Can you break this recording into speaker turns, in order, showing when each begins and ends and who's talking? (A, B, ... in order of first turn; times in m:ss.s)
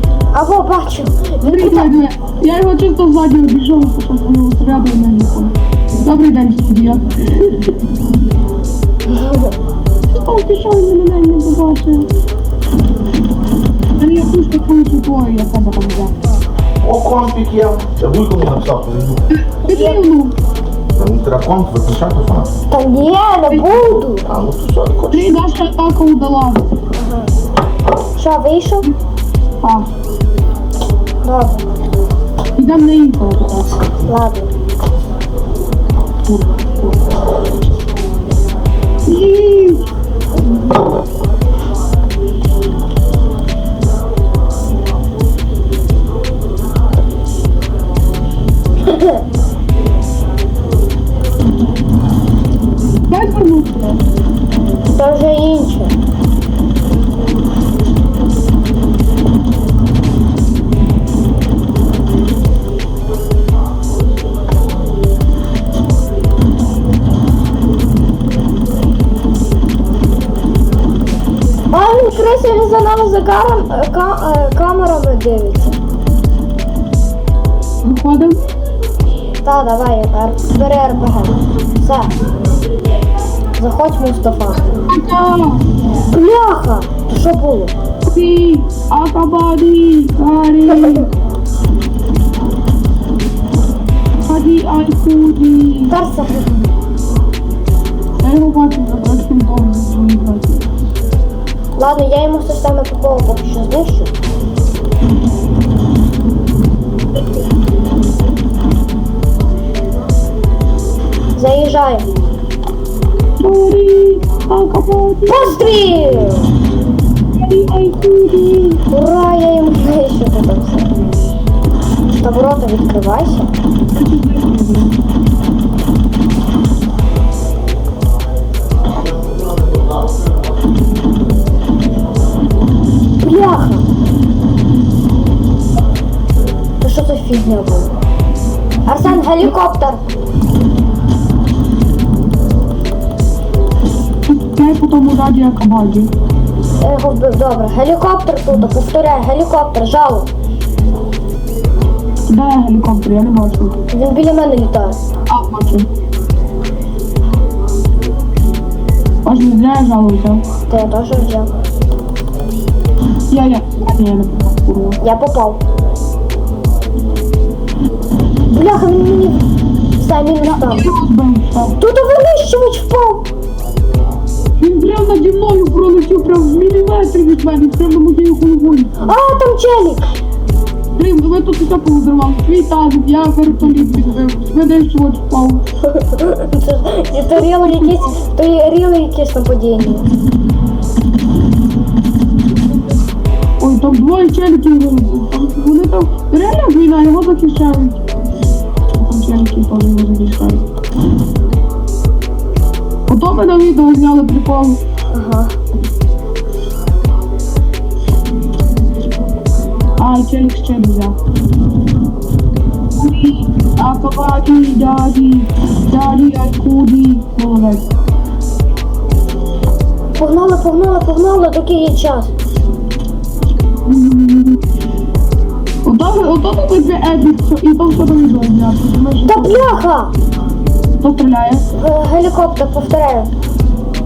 0:00.3-0:01.9 A
0:01.4-0:07.8 B
0:09.1-0:09.5 A
0:10.1-0:12.1 B
0:14.0-0:16.1 B
0:16.8-0:19.2 C
0:19.3-0:20.3 B
0:19.7-0:20.0 A
0:21.0-0:22.5 C
0:22.7-0:24.3 A
0:23.5-0:23.8 B
0:24.3-0:25.4 C
0:25.1-0:26.6 B
0:26.9-0:27.3 A
0:28.2-0:28.9 A
0:29.6-0:29.9 B
0:31.2-0:31.6 A
0:32.6-0:33.7 B
0:34.1-0:34.5 A
0:36.2-0:37.0 B
0:39.0-0:39.8 B
0:48.9-0:49.2 A
0:53.1-0:54.0 B
0:54.9-0:55.9 A
1:11.7-1:15.8 A
1:17.8-1:18.4 B
1:19.4-1:22.1 A
1:23.6-1:24.7 A
1:24.8-1:25.6 B
1:26.1-1:27.7 A
1:28.0-1:31.1 B
1:34.2-1:36.0 B
1:35.9-1:36.7 A
1:38.2-1:40.6 B
1:41.8-1:44.1 A
1:51.4-1:52.1 A
1:53.4-1:56.0 B
1:55.2-1:56.5 A
1:57.3-1:58.8 B
1:58.9-2:00.9 A
2:02.2-2:03.5 A
2:04.0-2:04.9 B
2:13.2-2:13.8 A
2:16.8-2:17.9 A
2:18.9-2:20.0 A
2:24.2-2:26.1 B
2:26.8-2:30.3 A
2:32.2-2:33.8 B
2:33.9-2:35.0 A
2:35.3-2:35.9 B
2:39.2-2:40.4 B
2:40.7-2:41.5 A
2:43.3-2:45.0 B
2:45.0-2:45.6 A
2:48.5-2:49.4 A
2:50.0-2:50.9 A
2:50.4-2:51.7 B
2:51.8-2:53.3 A
2:54.6-2:58.9 B
2:59.0-3:00.0 A
3:01.0-3:05.6 B
3:05.8-3:10.1 A
3:07.4-3:08.1 B
3:13.6-3:18.1 B
3:18.9-3:20.6 B
3:23.1-3:24.8 B
3:25.1-3:25.5 A
3:30.0-3:31.2 B
3:33.0-3:37.9 B
3:40.2-3:42.3 A
3:43.9-3:44.6 B
3:45.8-3:49.8 B
3:49.2-3:50.1 A
3:51.0-3:51.6 B
3:51.7-3:53.3 A